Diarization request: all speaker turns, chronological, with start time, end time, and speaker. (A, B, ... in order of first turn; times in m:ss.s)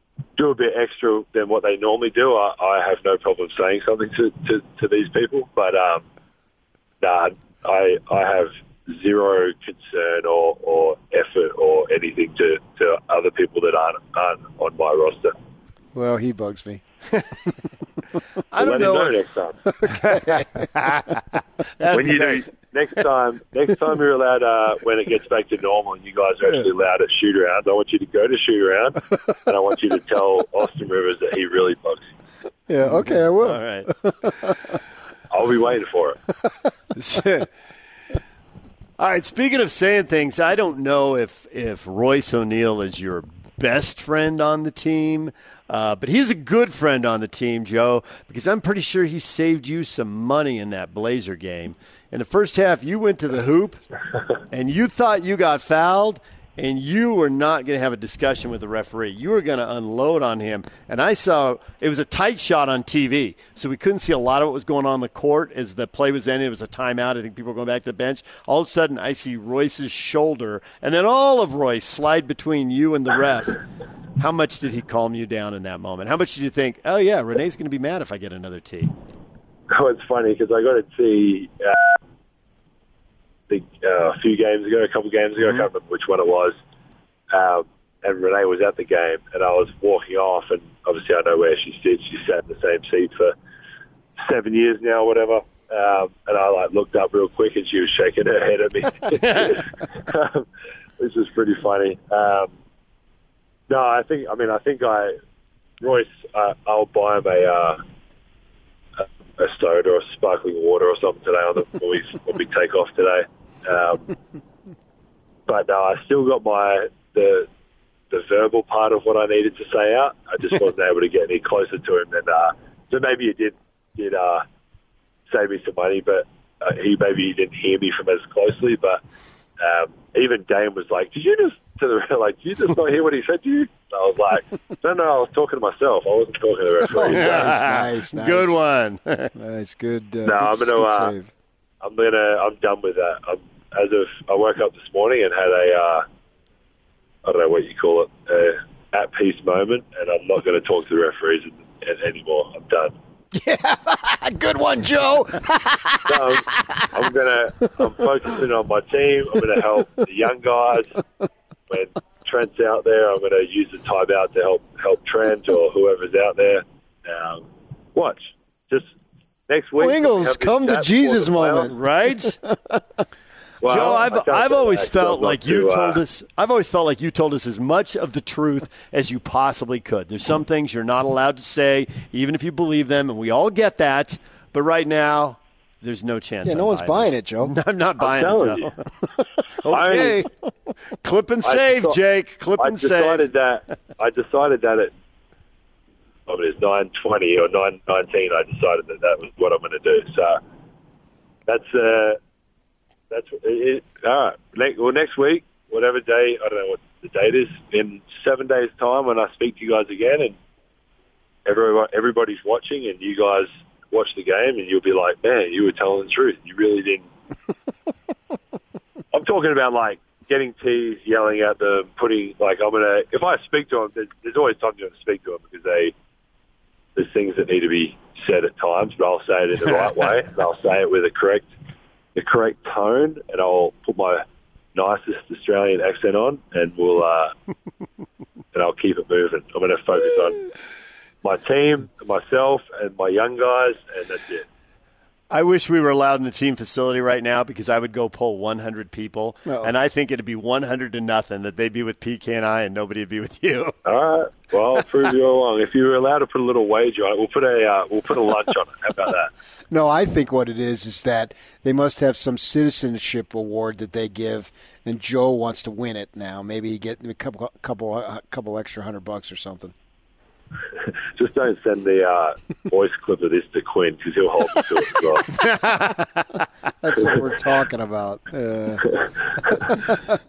0:00.4-0:06.0 A
0:07.0-0:15.3 A
0:15.9-0:16.8 B
0:18.5-0:19.2 C
0:18.6-0:19.6 A
0:19.8-0:20.6 B
0:19.8-0:21.2 C
0:21.8-0:22.4 C
0:21.9-0:32.0 A
0:32.7-0:34.8 B
0:32.8-0:33.9 C
0:35.3-0:36.2 A
0:37.0-0:37.5 C
0:39.0-0:53.8 C
0:54.5-1:13.6 C
1:14.2-1:18.9 C
1:19.7-1:22.0 A
1:23.5-1:26.5 A
1:27.3-1:33.3 A
1:34.2-1:40.4 A
1:39.1-1:39.5 C
1:41.0-1:42.5 A
1:43.7-1:45.2 A
1:45.8-1:47.8 A
1:49.4-1:54.1 A
1:55.5-1:57.5 A
1:58.1-2:04.4 A
2:05.3-2:09.0 A
2:09.6-2:17.5 A
2:16.9-2:18.6 B
2:17.1-2:19.3 C
2:19.3-2:21.3 B
2:20.2-2:21.1 A
2:21.8-2:26.0 A
2:27.2-2:32.9 A
2:33.3-2:36.8 B
2:36.1-2:41.0 A
2:41.7-2:48.9 A
2:49.5-2:51.7 A
2:49.8-2:53.0 B
2:51.7-2:52.4 C
2:53.6-2:56.0 A
2:53.6-3:08.8 C
3:06.4-3:07.5 B
3:08.0-3:08.7 A
3:09.6-3:10.2 C
3:09.7-3:10.2 A
3:11.0-3:13.3 C
3:11.4-3:12.0 A
3:12.6-3:14.9 A
3:16.3-3:20.4 A
3:21.5-3:22.2 A
3:23.1-3:30.4 A
3:31.4-3:37.0 A
3:39.1-3:45.9 A
3:47.0-3:51.5 A
3:52.1-3:54.2 A
3:54.7-3:57.3 A
3:58.5-4:00.4 A
4:01.2-4:04.4 A
4:05.3-4:13.8 C
4:09.5-4:09.7 B
4:13.8-4:19.3 A
4:19.7-4:29.7 B
4:31.2-4:35.3 A
4:35.4-4:36.2 C
4:36.8-4:38.9 B
4:39.8-4:40.1 B